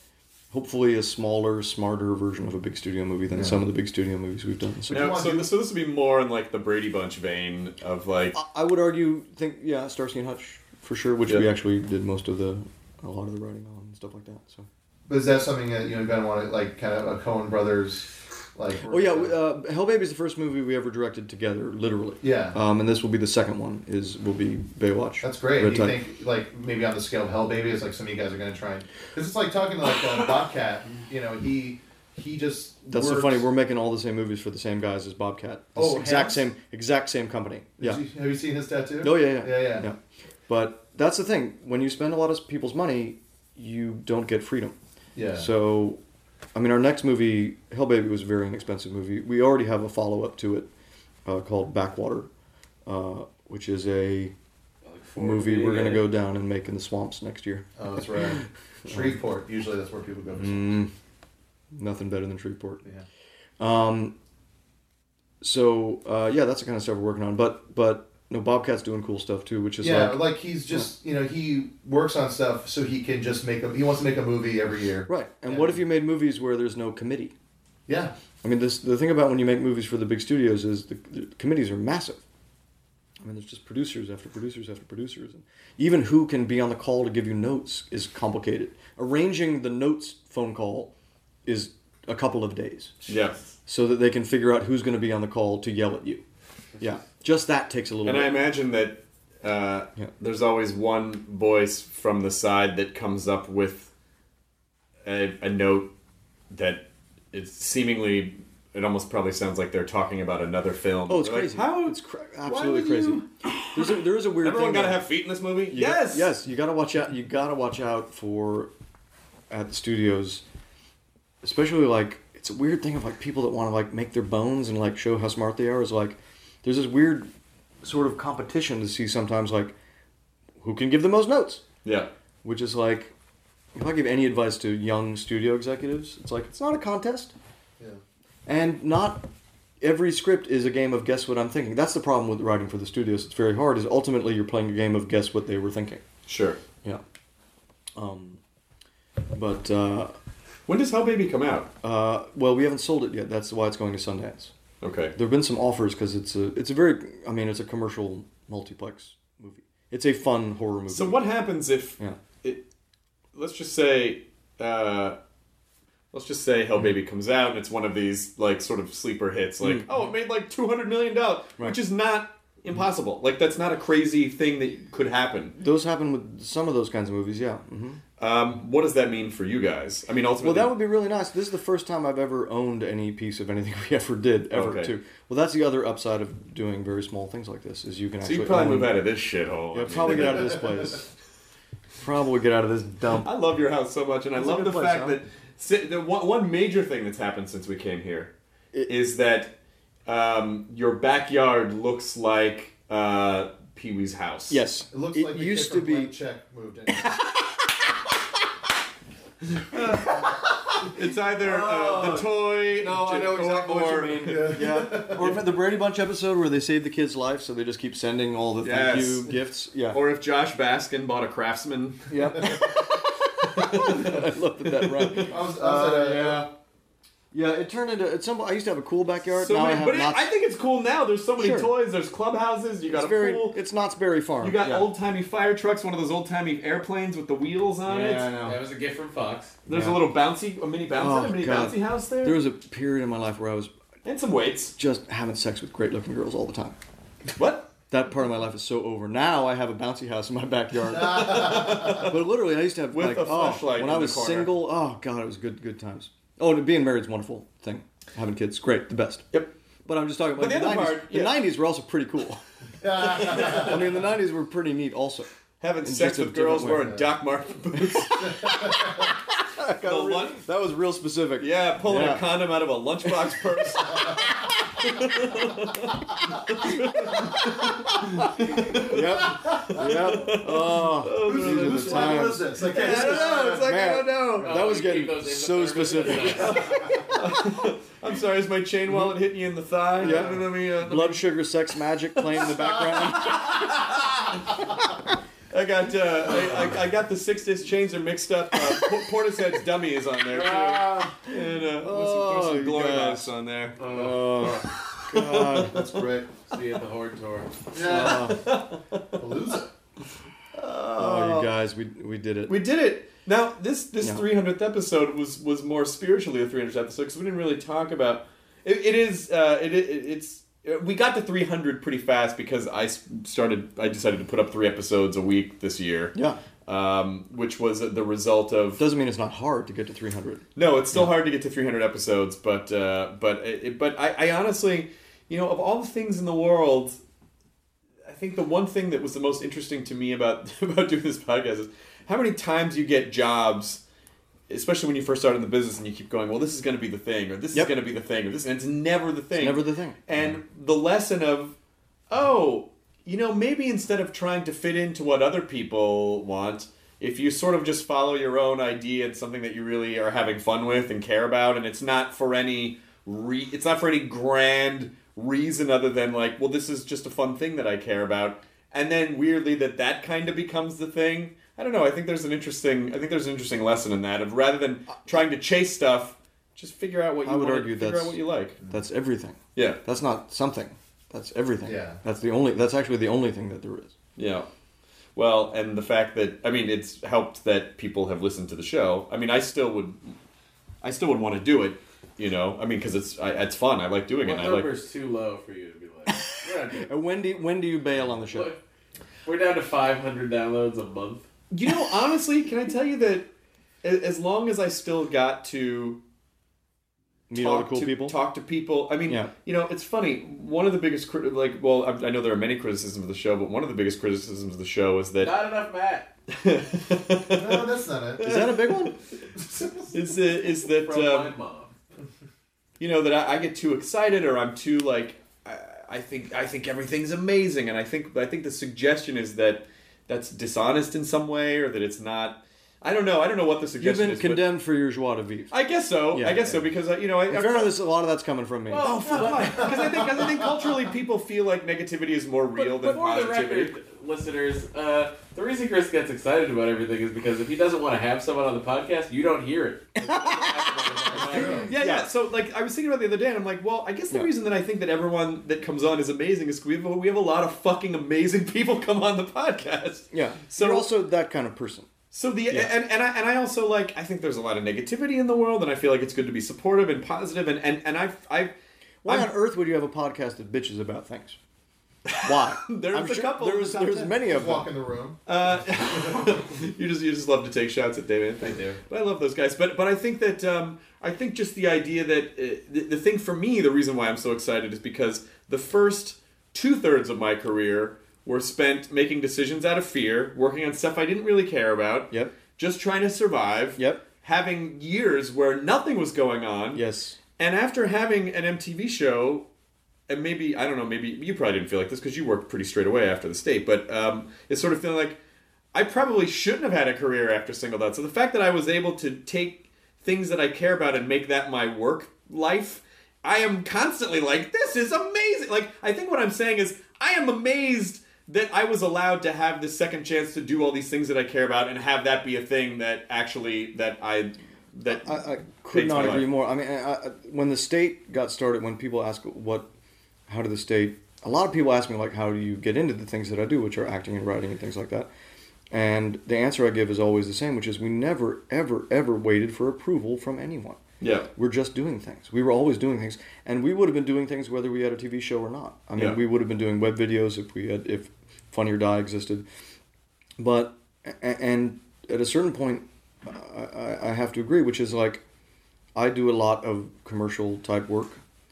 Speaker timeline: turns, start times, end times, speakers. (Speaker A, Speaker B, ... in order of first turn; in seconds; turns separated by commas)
Speaker A: 0.5-5.2, Speaker B: 3.3-3.6, Speaker B: 4.9-5.5, Speaker C: 4.9-8.3, Speaker A: 8.3-14.7, Speaker B: 15.1-19.3, Speaker A: 18.9-26.0, Speaker B: 22.2-22.6, Speaker B: 25.2-33.5, Speaker A: 32.9-38.0, Speaker B: 35.8-36.5, Speaker B: 37.8-39.9, Speaker A: 39.0-44.8, Speaker B: 45.1-45.5, Speaker A: 45.4-46.0, Speaker A: 46.5-50.7, Speaker A: 51.2-52.3, Speaker A: 52.9-54.3, Speaker D: 54.8-56.1, Speaker A: 55.2-59.1, Speaker B: 57.8-60.7, Speaker A: 60.4-60.9, Speaker A: 61.7-62.8, Speaker A: 63.6-64.1, Speaker A: 65.4-70.9, Speaker B: 69.8-75.8, Speaker A: 75.1-77.3, Speaker B: 77.9-78.1, Speaker A: 78.4-82.2, Speaker A: 83.2-90.9, Speaker A: 91.5-93.1, Speaker C: 93.1-93.4, Speaker A: 93.7-96.2, Speaker A: 96.8-98.3, Speaker C: 98.0-103.9, Speaker C: 105.0-105.9, Speaker C: 106.5-116.3, Speaker A: 111.1-115.0, Speaker A: 115.7-118.7, Speaker A: 119.5-120.4, Speaker A: 121.4-127.3, Speaker A: 127.8-129.7, Speaker A: 130.6-131.6, Speaker C: 131.8-132.1, Speaker A: 132.4-133.1, Speaker A: 133.8-137.3, Speaker A: 138.5-139.3, Speaker A: 139.8-146.0, Speaker C: 146.2-146.6, Speaker A: 147.9-148.4, Speaker A: 149.3-150.1, Speaker C: 150.7-151.7, Speaker A: 151.8-154.5, Speaker C: 154.8-155.1, Speaker A: 155.1-161.3, Speaker C: 160.9-162.6, Speaker C: 163.3-165.2, Speaker C: 166.1-175.6, Speaker A: 169.6-169.9, Speaker A: 175.6-178.0, Speaker C: 178.2-180.8, Speaker A: 180.4-188.9, Speaker C: 184.5-184.9, Speaker C: 188.2-190.7, Speaker A: 189.7-191.0, Speaker A: 192.0-193.3, Speaker C: 193.2-198.3, Speaker A: 194.3-195.2, Speaker C: 198.9-199.5, Speaker C: 200.1-204.6, Speaker A: 204.5-206.1, Speaker B: 204.9-207.2, Speaker A: 206.9-207.5, Speaker C: 209.7-214.6, Speaker A: 211.4-220.0, Speaker B: 214.2-215.3, Speaker C: 218.6-219.3, Speaker C: 219.9-222.8, Speaker A: 222.1-226.5, Speaker C: 223.4-224.2, Speaker C: 224.8-225.3, Speaker B: 225.2-226.5, Speaker A: 227.3-230.3, Speaker C: 229.2-233.6, Speaker A: 231.4-231.7, Speaker A: 232.9-234.9, Speaker C: 234.4-238.3, Speaker D: 237.8-239.6, Speaker A: 238.0-238.6, Speaker C: 239.7-242.4, Speaker A: 239.7-240.0, Speaker A: 240.9-243.7, Speaker C: 244.0-244.7, Speaker A: 244.8-246.8, Speaker C: 247.3-247.7, Speaker A: 247.9-259.3, Speaker B: 251.1-251.9, Speaker C: 251.3-252.1, Speaker C: 252.9-254.5, Speaker A: 259.8-262.4, Speaker C: 260.3-261.4, Speaker B: 262.8-263.8, Speaker A: 263.1-265.3, Speaker C: 265.6-269.2, Speaker A: 265.8-267.1, Speaker A: 267.8-268.5, Speaker A: 269.5-272.4, Speaker C: 269.8-270.4, Speaker C: 271.4-284.7, Speaker A: 276.6-277.9, Speaker A: 278.7-286.7, Speaker B: 281.2-283.7, Speaker D: 284.4-286.9, Speaker C: 286.2-291.2, Speaker A: 290.0-293.7, Speaker C: 292.2-294.8, Speaker C: 295.5-303.8, Speaker D: 300.3-301.1, Speaker A: 301.8-305.8, Speaker D: 303.8-304.7, Speaker C: 304.6-305.8, Speaker B: 305.7-306.3, Speaker D: 306.5-307.5, Speaker B: 307.7-308.4, Speaker A: 307.8-308.4, Speaker C: 307.9-309.1, Speaker B: 309.2-309.7, Speaker C: 310.5-311.5, Speaker A: 311.0-312.6, Speaker C: 312.5-328.8, Speaker A: 326.1-326.4, Speaker A: 328.8-331.1, Speaker C: 330.6-337.0, Speaker C: 338.1-343.8, Speaker C: 344.5-351.5, Speaker A: 349.4-350.1, Speaker C: 352.1-378.6, Speaker A: 375.0-375.3, Speaker A: 377.2-383.9, Speaker C: 379.5-379.8, Speaker B: 381.6-382.0, Speaker C: 384.1-384.5, Speaker C: 385.1-390.1, Speaker C: 390.8-394.7, Speaker D: 394.2-397.3, Speaker A: 396.1-398.5, Speaker D: 398.0-398.6, Speaker D: 399.2-401.3, Speaker C: 401.5-403.3, Speaker C: 403.8-406.0, Speaker A: 407.3-408.2, Speaker C: 407.3-415.4, Speaker A: 409.1-409.3, Speaker D: 415.2-416.1, Speaker C: 416.3-417.7, Speaker B: 417.3-418.2, Speaker C: 418.2-419.0, Speaker A: 418.2-418.9, Speaker B: 419.4-419.9, Speaker C: 419.9-421.3, Speaker D: 420.6-421.7, Speaker C: 422.8-434.5, Speaker A: 433.8-435.5, Speaker C: 435.5-437.7, Speaker A: 436.1-436.6, Speaker A: 437.3-440.0, Speaker D: 438.7-439.7, Speaker C: 438.7-443.7, Speaker A: 442.6-443.0, Speaker D: 442.8-451.7, Speaker A: 450.0-452.1, Speaker B: 451.2-451.6, Speaker C: 451.6-460.9, Speaker A: 460.1-461.9, Speaker C: 462.1-468.5, Speaker A: 469.0-471.4, Speaker C: 469.0-469.3, Speaker C: 472.1-474.1, Speaker A: 472.2-474.7, Speaker B: 474.2-475.2, Speaker C: 475.3-496.8, Speaker D: 478.4-478.8, Speaker A: 493.8-494.1, Speaker A: 496.7-497.2, Speaker C: 497.4-499.5, Speaker C: 500.1-505.2, Speaker C: 505.7-526.3, Speaker A: 524.9-529.7, Speaker A: 530.3-535.1, Speaker A: 535.7-540.8, Speaker C: 541.0-541.3, Speaker A: 541.3-549.5, Speaker A: 550.4-555.2, Speaker A: 555.9-558.2